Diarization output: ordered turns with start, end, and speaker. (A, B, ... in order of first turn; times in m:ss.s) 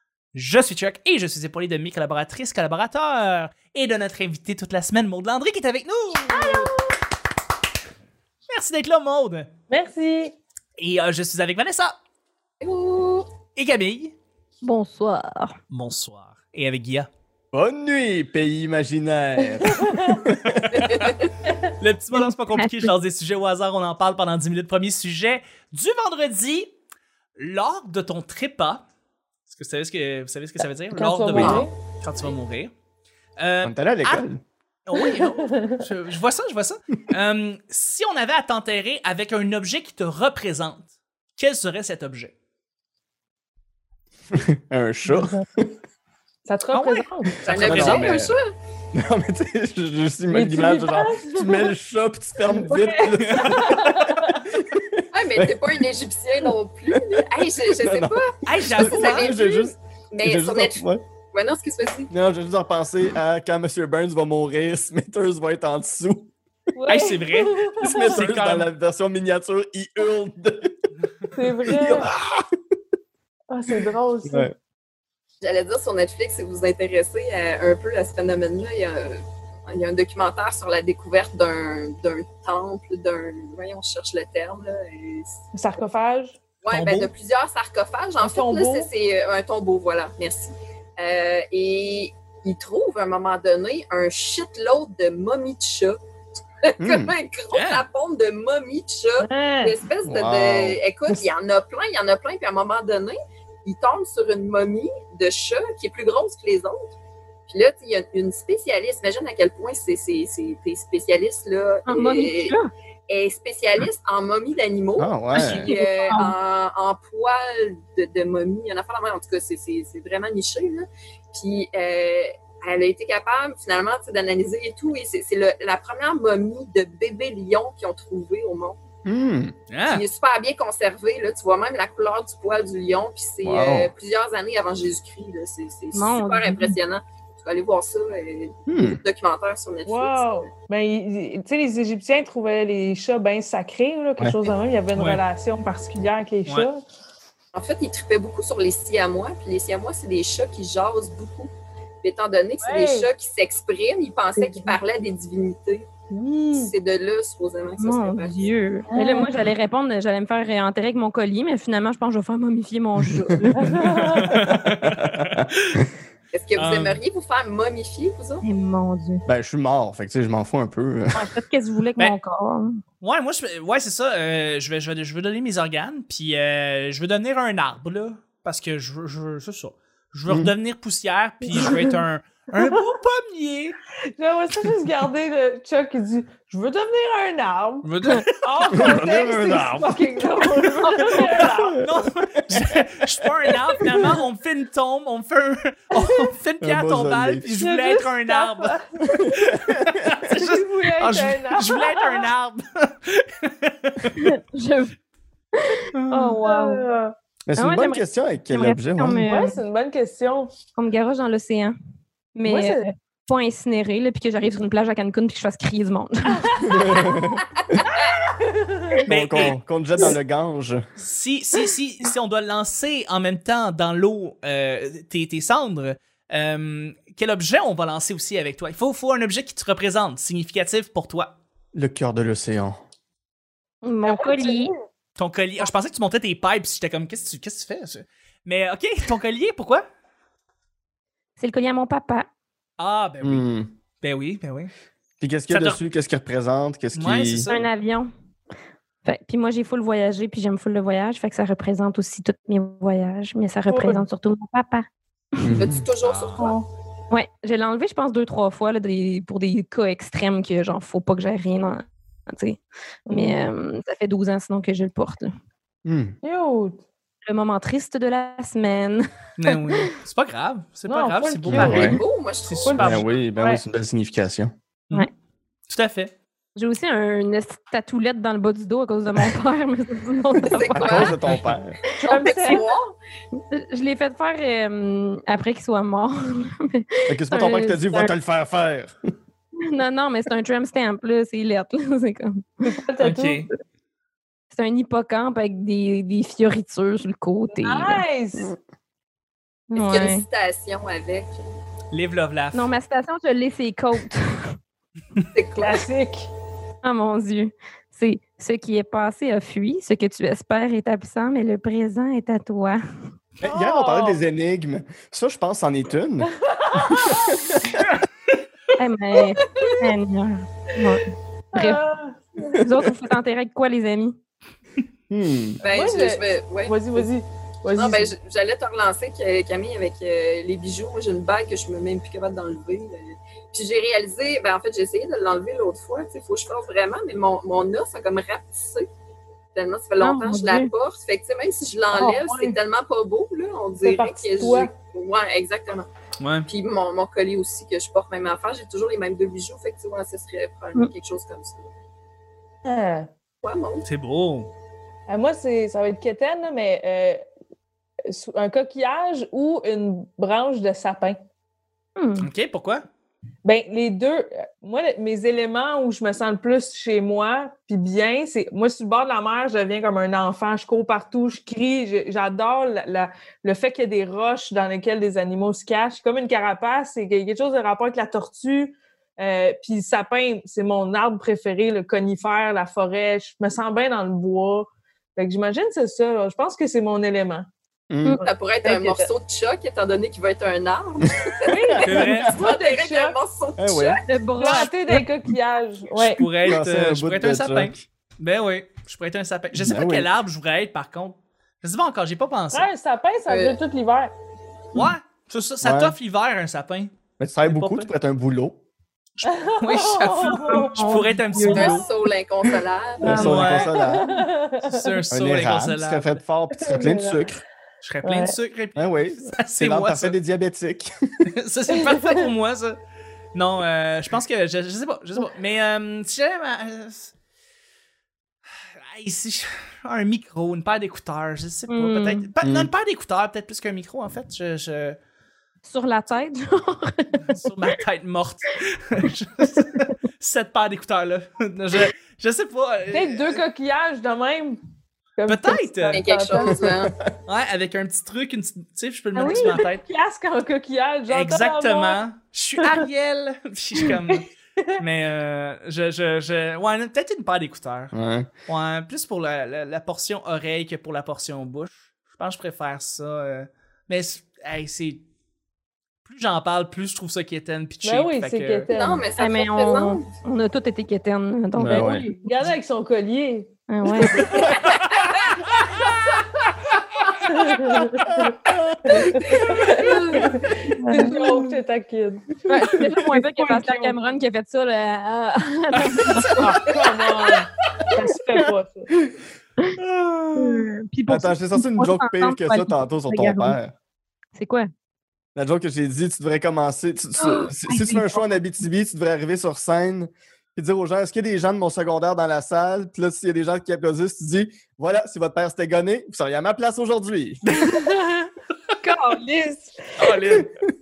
0:00.3-0:06.7 A
0:06.3-0:06.9 B
0:08.5-0:09.5 A
0:09.7-0:10.4 B
0:10.8-0:12.0 A
0:12.6-0:13.3 C
0:13.6-0:14.1 A
0:14.6-0:15.5 D
0:15.7-0:17.1 A
0:17.5-0:21.1 E
0:19.6-0:20.2 B
0:20.7-0:21.2 C
0:21.8-0:26.7 A
0:22.2-0:22.9 D
0:27.4-0:28.8 A
0:29.5-0:32.7 A
0:30.9-0:31.7 B
0:31.3-0:31.7 C
0:33.4-0:34.2 A
0:33.6-0:34.4 E
0:34.8-0:42.3 A
0:34.9-0:35.8 B
0:44.3-0:45.7 E
0:45.1-0:45.5 B
0:46.4-0:47.4 B
0:46.7-0:48.3 A
0:47.4-0:48.5 C
0:47.5-0:48.4 E
0:48.9-0:55.8 E
0:50.3-0:51.7 B
0:52.4-0:54.5 B
0:53.1-0:53.7 A
0:55.1-1:02.1 C
0:56.5-1:01.0 E
0:58.4-0:59.4 A
1:02.1-1:06.3 E
1:06.7-1:08.1 B
1:06.9-1:08.7 A
1:07.8-1:10.8 E
1:11.3-1:12.1 B
1:11.6-1:12.5 E
1:13.5-1:14.5 B
1:14.2-1:14.5 E
1:15.4-1:25.4 C
1:25.5-1:26.4 B
1:26.6-1:36.0 C
1:26.7-1:27.1 A
1:28.2-1:28.9 B
1:36.6-1:46.9 C
1:36.8-1:37.1 E
1:37.5-1:37.8 A
1:39.2-1:39.8 B
1:40.0-1:41.2 E
1:47.5-1:52.6 C
1:51.9-1:52.7 D
1:53.1-2:08.8 C
1:55.0-1:55.7 E
1:55.3-1:56.3 D
2:09.0-2:09.5 E
2:09.7-2:10.0 A
2:09.9-2:20.5 C
2:13.4-2:13.9 E
2:15.9-2:16.8 D
2:18.7-2:19.0 E
2:19.8-2:26.8 B
2:24.9-2:25.2 A
2:27.5-2:31.5 C
2:32.0-2:35.9 C
2:32.6-2:33.1 B
2:34.4-2:34.7 B
2:36.1-2:36.7 B
2:36.5-2:38.5 C
2:37.8-2:44.0 D
2:38.9-2:39.3 B
2:43.0-2:43.5 E
2:43.6-2:44.5 B
2:43.9-2:45.9 A
2:44.4-2:45.8 E
2:46.3-2:48.4 C
2:46.5-2:47.0 A
2:48.4-2:49.2 D
2:49.2-2:51.3 E
2:51.1-2:52.8 D
2:53.0-3:03.8 A
3:04.2-3:07.9 B
3:07.8-3:08.3 A
3:08.4-3:11.8 B
3:08.7-3:11.8 E
3:10.8-3:11.2 D
3:11.8-3:18.8 A
3:12.5-3:12.8 E
3:16.0-3:16.3 B
3:16.6-3:17.4 E
3:17.6-3:19.3 B
3:19.1-3:20.3 E
3:19.4-3:24.2 A
3:20.3-3:22.3 B
3:24.2-3:24.9 D
3:25.5-3:26.8 D
3:25.9-3:26.4 A
3:26.4-3:27.1 B
3:27.5-3:29.2 E
3:27.6-3:29.6 D
3:29.2-3:30.5 B
3:30.7-3:31.7 D
3:32.3-3:36.9 D
3:32.4-3:32.9 B
3:36.4-3:36.7 B
3:36.6-3:37.8 E
3:38.1-3:39.0 B
3:39.0-3:40.8 E
3:39.1-3:39.6 A
3:41.0-3:51.4 A
3:51.7-3:52.8 E
3:53.8-3:54.7 D
3:54.0-3:54.8 B
3:55.2-3:59.8 A
4:01.4-4:02.3 D
4:02.8-4:03.4 A
4:03.2-4:03.7 E
4:04.0-4:04.7 A
4:05.2-4:07.5 E
4:05.5-4:05.8 A
4:06.9-4:07.7 A
4:07.5-4:08.1 D
4:09.0-4:14.8 D
4:13.7-4:14.0 B
4:15.4-4:15.8 E
4:15.5-4:16.6 C
4:16.0-4:16.4 A
4:16.4-4:16.7 B
4:17.1-4:25.3 D
4:23.1-4:23.5 B
4:25.8-4:26.2 E
4:26.2-4:26.8 B
4:27.2-4:29.8 D
4:29.4-4:33.0 A
4:30.8-4:32.0 B
4:31.5-4:32.0 E
4:31.6-4:33.0 C
4:32.6-4:33.6 B
4:32.8-4:34.5 E
4:35.7-4:36.1 A
4:36.6-4:41.2 D
4:40.4-4:41.2 C
4:40.6-4:41.8 E
4:41.3-4:41.5 A
4:42.0-4:42.7 B
4:42.0-4:42.6 D
4:42.1-4:42.9 C
4:43.5-4:48.1 D
4:47.1-4:48.9 E
4:49.6-4:52.7 D
4:52.6-4:53.4 B
4:53.0-4:53.5 A
4:54.5-4:58.0 D
4:57.6-4:58.5 B
4:59.7-5:00.2 D
4:59.7-5:01.4 C
5:01.9-5:02.6 A
5:02.5-5:04.6 D
5:05.3-5:05.8 C
5:05.5-5:06.3 B
5:06.8-5:12.8 D
5:13.4-5:17.9 E
5:13.4-5:14.2 B
5:16.3-5:17.3 B
5:18.8-5:21.8 D
5:21.5-5:22.6 B
5:22.5-5:24.2 D
5:25.1-5:25.6 E
5:25.6-5:27.1 C
5:25.6-5:28.1 B
5:27.7-5:38.9 C
5:39.5-5:45.9 C
5:40.0-5:40.7 D
5:41.9-5:42.6 B
5:43.8-5:44.7 B
5:46.2-5:46.5 A
5:46.5-5:51.7 C
5:52.6-5:53.1 B
5:53.4-5:53.9 C
5:53.8-5:54.5 A
5:55.1-5:57.2 B
5:58.1-6:01.2 B
6:02.0-6:02.3 D
6:02.2-6:02.8 A
6:03.4-6:27.5 B
6:27.9-6:28.2 E
6:28.2-6:29.1 B
6:28.2-6:34.0 C
6:31.4-6:33.2 B
6:31.8-6:32.3 A
6:31.8-6:32.3 E
6:33.6-6:34.0 E
6:34.1-6:35.0 D
6:34.4-6:36.3 B
6:36.0-6:42.7 A
6:36.4-6:37.8 E
6:39.5-6:40.1 E
6:42.5-6:44.1 B
6:43.3-6:43.6 C
6:44.7-6:47.9 A
6:45.6-6:46.0 E
6:47.2-6:48.6 E
6:49.2-6:51.8 A
6:49.2-6:51.8 B
6:50.3-6:51.8 D
6:51.4-6:53.3 C
6:53.0-6:55.0 B
6:53.0-6:54.2 E
6:53.0-6:53.7 A
6:54.6-6:56.2 A
6:55.1-6:57.4 E
6:56.5-6:57.3 B
6:57.8-7:00.2 A
6:58.0-6:58.4 B
6:58.8-7:00.9 E
7:01.2-7:02.8 A
7:01.8-7:02.2 B
7:03.3-7:07.1 A
7:08.8-7:15.0 A
7:11.7-7:12.3 D
7:12.4-7:12.7 E
7:15.6-7:17.4 D
7:17.3-7:23.4 A
7:22.9-7:24.6 B
7:25.2-7:26.6 B
7:25.2-7:26.0 A
7:25.9-7:26.9 C
7:26.4-7:27.1 E
7:27.2-7:29.8 A
7:29.2-7:29.6 D
7:29.2-7:32.0 B
7:31.1-7:34.3 A
7:34.6-7:34.8 B
7:34.8-7:37.9 A
7:37.9-7:38.3 E
7:38.5-7:45.0 A
7:46.0-7:48.7 A
7:47.8-7:49.1 B
7:48.7-7:50.0 C
7:49.2-7:52.3 D
7:51.6-7:52.1 E
7:51.8-7:53.5 B
7:53.7-7:54.4 D
7:54.0-7:54.3 B
7:54.3-7:55.2 C
7:57.2-8:03.9 B
7:57.9-7:59.4 E
7:59.7-8:00.4 C
8:00.3-8:01.5 D
8:02.5-8:06.6 D
8:06.2-8:08.9 B
8:08.0-8:08.4 D
8:09.8-8:10.7 A
8:10.3-8:13.6 D
8:11.1-8:13.7 E
8:14.3-8:14.7 D
8:15.4-8:27.4 E
8:17.2-8:18.3 D
8:27.6-8:28.3 B
8:28.8-8:30.4 B
8:30.0-8:30.5 A
8:30.2-8:30.5 E